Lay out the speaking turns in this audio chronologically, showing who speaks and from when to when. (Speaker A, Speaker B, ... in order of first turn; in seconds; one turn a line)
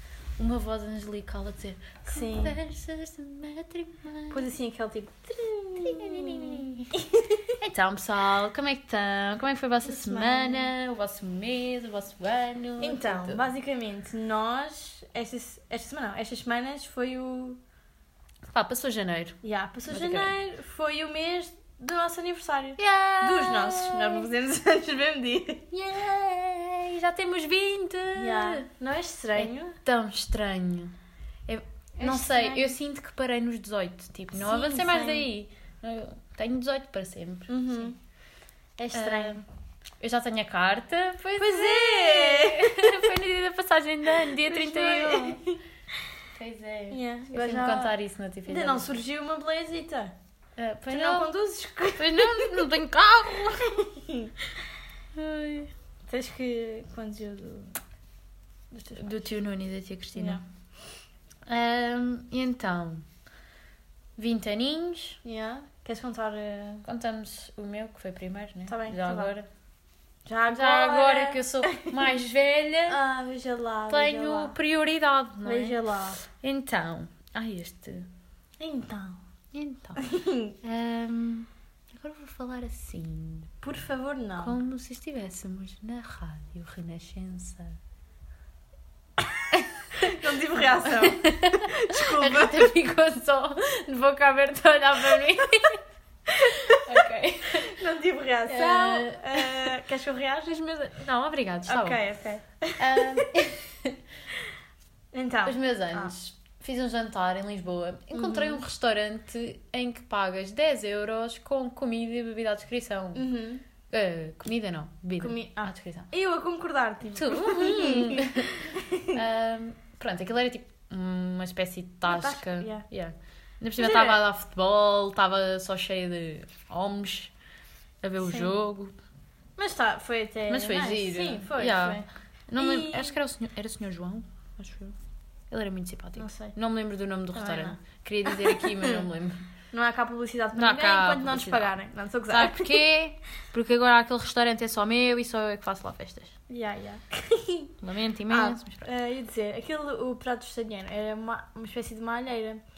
Speaker A: 0.4-4.4
Speaker B: 2.1-2.6
Speaker B: 4.3-7.5
Speaker A: 5.8-6.9
Speaker A: 7.6-13.4
Speaker B: 9.8-10.7
Speaker B: 12.8-17.6
Speaker A: 18.5-19.4
Speaker B: 19.4-25.7
Speaker A: 19.9-20.3
Speaker A: 22.8-24.3
Speaker A: 25.7-28.6
Speaker B: 28.1-29.8
Speaker A: 29.4-30.9
Speaker A: 31.5-37.9
Speaker B: 32.0-32.7
Speaker B: 34.4-35.3
Speaker B: 37.5-38.0
Speaker B: 38.8-39.4
Speaker A: 38.9-39.4
Speaker A: 40.0-45.4
Speaker B: 41.4-43.0
Speaker B: 44.2-45.6
Speaker A: 46.4-48.9
Speaker B: 46.9-48.0
Speaker B: 48.5-50.1
Speaker A: 50.6-51.3
Speaker B: 50.9-52.7
Speaker A: 52.0-53.7
Speaker B: 53.6-54.3
Speaker A: 55.1-55.7
Speaker B: 56.1-57.8
Speaker B: 58.7-59.1
Speaker A: 59.0-60.4
Speaker B: 60.2-60.4
Speaker A: 61.5-63.1
Speaker A: 64.2-65.2
Speaker B: 65.2-66.8
Speaker A: 66.8-69.5
Speaker B: 68.7-69.3
Speaker B: 70.3-71.9
Speaker A: 70.5-73.0
Speaker B: 72.9-74.6
Speaker A: 73.9-75.8
Speaker B: 75.5-76.2
Speaker A: 76.3-78.1
Speaker B: 78.6-79.2
Speaker A: 79.5-80.0
Speaker B: 80.0-80.6
Speaker A: 80.6-83.5
Speaker B: 83.6-84.6
Speaker A: 84.4-87.8
Speaker B: 90.0-92.6
Speaker A: 90.9-95.8
Speaker A: 96.3-97.8
Speaker B: 97.6-100.8
Speaker A: 98.5-99.7
Speaker A: 100.6-102.0
Speaker B: 101.7-103.3
Speaker A: 102.8-104.0
Speaker B: 105.1-106.1
Speaker A: 105.5-113.2
Speaker B: 108.1-108.6
Speaker B: 113.2-113.6
Speaker A: 113.9-116.1
Speaker B: 115.2-119.2
Speaker A: 117.2-118.5
Speaker A: 119.1-127.3
Speaker B: 122.1-122.8
Speaker B: 123.8-124.2
Speaker A: 128.0-128.9
Speaker B: 128.2-128.5
Speaker B: 129.6-132.1
Speaker A: 130.5-135.0
Speaker B: 132.6-133.2
Speaker A: 135.5-139.5
Speaker B: 136.2-136.5
Speaker B: 137.3-139.0
Speaker B: 139.7-142.8
Speaker A: 140.6-141.7
Speaker A: 142.3-146.4
Speaker B: 146.5-147.8
Speaker A: 147.8-148.9
Speaker B: 148.3-152.6